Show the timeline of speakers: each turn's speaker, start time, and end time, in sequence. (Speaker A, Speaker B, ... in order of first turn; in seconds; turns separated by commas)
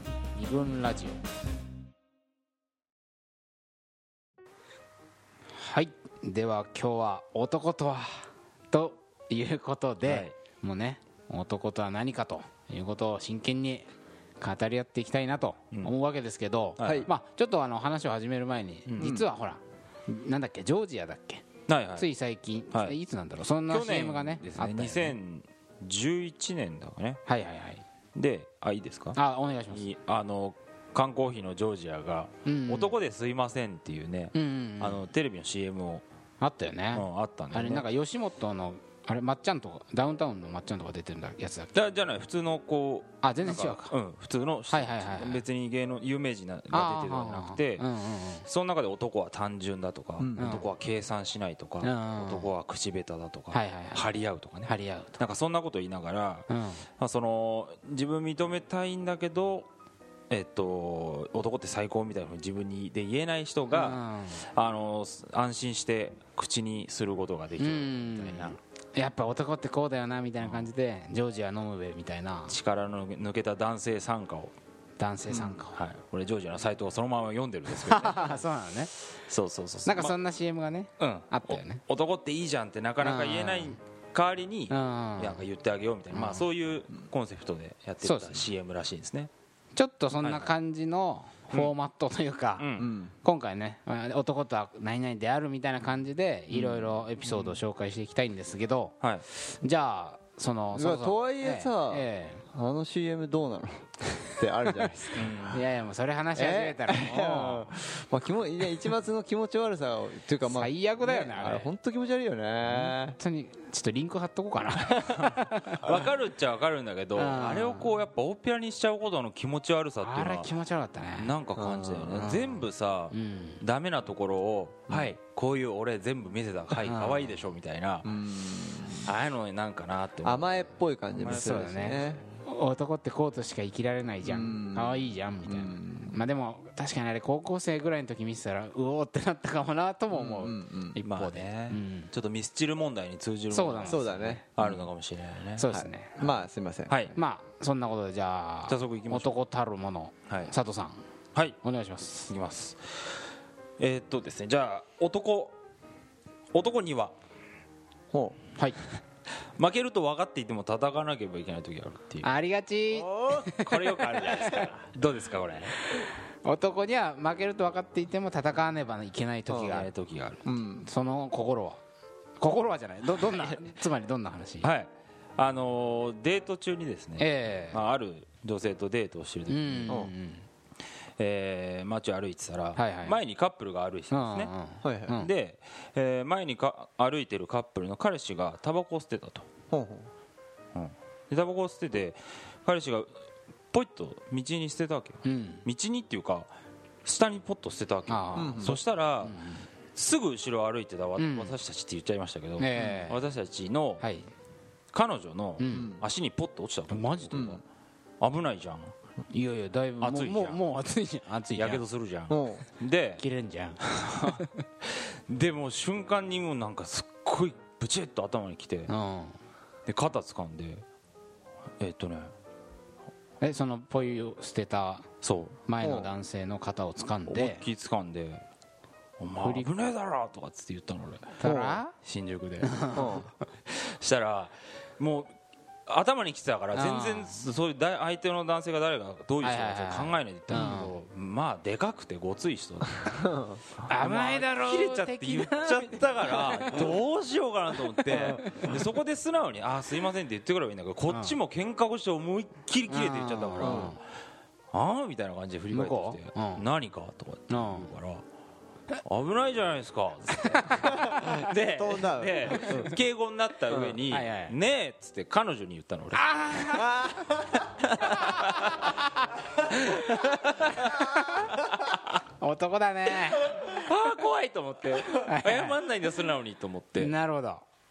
Speaker A: 0.3-1.2, Speaker A: 5.5-13.9, Speaker B: 10.0-10.3, Speaker A: 14.4-21.4, Speaker B: 16.8-17.1, Speaker C: 16.8-17.1, Speaker B: 18.9-19.1, Speaker C: 19.0-19.2, Speaker B: 21.7-22.1, Speaker A: 22.0-25.1, Speaker B: 23.6-27.2, Speaker A: 27.3-27.8, Speaker B: 28.1-29.2, Speaker A: 29.1-29.9, Speaker B: 29.7-36.0, Speaker A: 32.4-32.9, Speaker A: 34.3-35.0, Speaker A: 36.4-41.7, Speaker B: 36.9-37.9, Speaker B: 41.7-47.9, Speaker A: 43.2-43.9, Speaker A: 44.7-45.4, Speaker A: 46.7-48.5, Speaker B: 48.4-56.5, Speaker C: 50.2-50.6, Speaker A: 50.4-50.7, Speaker A: 51.8-52.5, Speaker A: 53.5-55.2, Speaker A: 56.5-56.9, Speaker B: 57.0-59.7, Speaker B: 60.3-68.5, Speaker A: 63.7-64.4, Speaker A: 67.6-72.6, Speaker B: 70.4-70.7, Speaker B: 72.5-74.5, Speaker A: 75.0-75.8, Speaker C: 75.3-75.6, Speaker B: 75.7-78.3, Speaker A: 77.7-78.9, Speaker B: 79.3-80.1, Speaker A: 79.8-81.8, Speaker B: 81.0-89.3, Speaker A: 83.0-83.8, Speaker A: 84.7-85.4, Speaker A: 86.1-86.5, Speaker A: 88.0-88.5, Speaker A: 89.7-92.7, Speaker B: 90.2-90.5, Speaker B: 92.6-93.0, Speaker C: 92.8-93.1, Speaker A: 93.2-102.4, Speaker B: 96.6-97.4, Speaker C: 100.7-105.4, Speaker B: 105.1-105.7, Speaker A: 105.5-107.7, Speaker C: 106.3-113.2, Speaker A: 110.5-111.7, Speaker A: 112.6-115.9, Speaker B: 115.1-120.5, Speaker A: 117.2-117.9, Speaker A: 120.0-121.3, Speaker B: 121.2-128.1, Speaker C: 121.5-122.3, Speaker A: 122.2-123.6, Speaker A: 126.8-127.3, Speaker C: 128.0-129.1, Speaker B: 128.9-132.1, Speaker C: 130.2-132.2, Speaker A: 131.2-142.1, Speaker C: 134.2-136.2, Speaker C: 140.1-141.0, Speaker B: 141.0-145.7, Speaker A: 143.5-144.4, Speaker C: 143.8-144.9, Speaker A: 145.6-146.2, Speaker C: 145.6-147.1, Speaker B: 146.9-147.1, Speaker A: 147.1-151.0, Speaker B: 148.7-149.4, Speaker A: 151.6-152.3, Speaker B: 152.3-153.2, Speaker B: 153.8-155.5, Speaker B: 156.5-157.1, Speaker C: 158.1-158.4, Speaker B: 159.6-162.3, Speaker A: 162.2-164.6, Speaker C: 162.9-163.7, Speaker B: 163.6-165.8, Speaker C: 164.3-164.7, Speaker A: 165.8-169.9, Speaker C: 169.5-169.8, Speaker B: 169.6-170.4, Speaker C: 170.4-170.9, Speaker A: 170.8-171.8, Speaker A: 172.4-174.7, Speaker B: 174.6-180.0, Speaker A: 177.2-177.8, Speaker A: 179.5-180.4, Speaker B: 181.2-184.5, Speaker A: 182.8-183.2, Speaker A: 184.1-185.3, Speaker C: 184.8-185.2, Speaker B: 185.1-189.5, Speaker C: 189.7-190.1, Speaker B: 190.7-193.1, Speaker B: 193.7-196.5, Speaker A: 195.2-195.6, Speaker B: 197.0-199.4, Speaker A: 198.1-199.6, Speaker C: 198.3-198.8, Speaker B: 199.9-204.0, Speaker A: 201.2-201.5, Speaker A: 202.6-203.2, Speaker A: 204.0-204.3, Speaker B: 204.9-207.6, Speaker A: 205.6-205.9, Speaker C: 205.7-206.0, Speaker A: 206.9-207.6, Speaker C: 207.3-207.6, Speaker B: 208.2-208.9, Speaker A: 209.3-211.8, Speaker B: 210.0-210.6, Speaker B: 211.6-213.2, Speaker C: 212.3-212.6, Speaker A: 213.2-214.6, Speaker B: 213.9-218.9, Speaker A: 218.9-219.4, Speaker B: 219.8-220.8, Speaker B: 221.8-222.3, Speaker A: 223.4-225.1, Speaker B: 225.2-225.6, Speaker A: 225.7-227.6, Speaker C: 225.8-226.1, Speaker B: 227.3-228.4, Speaker B: 229.2-231.4, Speaker A: 229.4-229.7, Speaker A: 231.4-231.9, Speaker C: 231.4-231.8, Speaker B: 232.0-233.0, Speaker A: 232.6-233.3, Speaker C: 232.9-233.3, Speaker B: 233.7-235.3, Speaker B: 235.9-243.3, Speaker A: 236.7-237.4, Speaker A: 239.4-240.9, Speaker C: 243.2-243.6, Speaker A: 243.8-246.9, Speaker B: 243.9-254.0, Speaker A: 248.0-248.7, Speaker C: 248.1-248.7, Speaker A: 251.1-251.3, Speaker A: 252.9-254.0, Speaker C: 253.6-253.9, Speaker B: 254.7-258.2, Speaker A: 255.7-256.6, Speaker A: 257.5-257.9, Speaker B: 259.0-266.3, Speaker A: 260.4-261.4, Speaker C: 261.1-263.0, Speaker C: 263.7-264.0, Speaker A: 264.1-264.5, Speaker A: 266.1-267.1, Speaker C: 266.7-267.7, Speaker B: 268.0-268.9, Speaker A: 268.0-271.6, Speaker B: 269.9-271.0, Speaker A: 272.4-273.7, Speaker B: 273.4-277.1, Speaker A: 275.1-275.8, Speaker A: 277.0-277.6